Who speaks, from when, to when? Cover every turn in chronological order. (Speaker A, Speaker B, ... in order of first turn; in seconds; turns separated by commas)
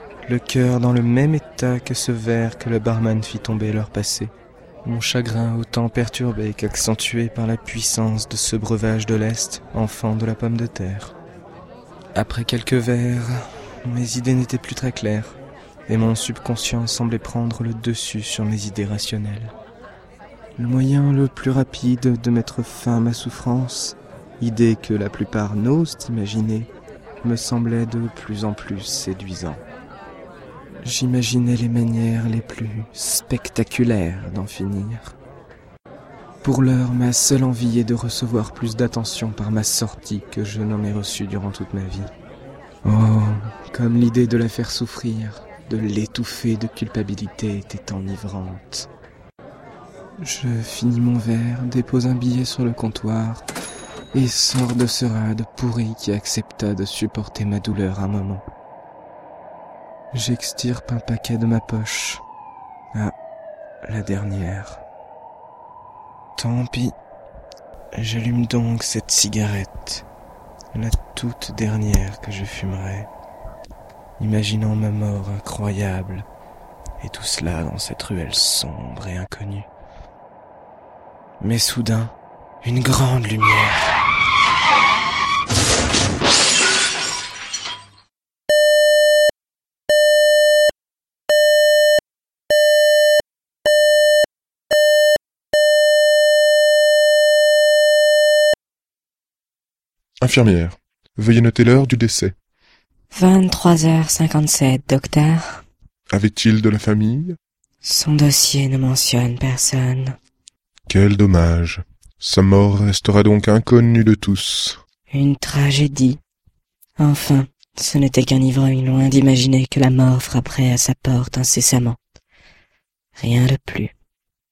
Speaker A: 0.3-4.3, Speaker A: 4.8-11.2, Speaker A: 12.2-19.5, Speaker A: 20.6-26.7, Speaker A: 27.2-29.6, Speaker A: 30.8-35.2, Speaker A: 36.4-42.1, Speaker A: 42.9-48.9, Speaker A: 50.2-53.5, Speaker A: 54.1-58.4, Speaker A: 60.1-62.2, Speaker A: 63.9-64.8, Speaker A: 66.4-67.0, Speaker A: 68.0-70.1, Speaker A: 70.7-73.1, Speaker A: 74.2-76.3, Speaker A: 77.0-79.7, Speaker A: 81.4-84.0, Speaker B: 100.2-102.4, Speaker C: 103.1-105.6, Speaker B: 106.1-107.4, Speaker C: 107.8-110.1, Speaker B: 110.9-114.8, Speaker C: 115.1-116.2, Speaker C: 117.0-122.0, Speaker A: 117.5-117.8, Speaker C: 123.2-123.9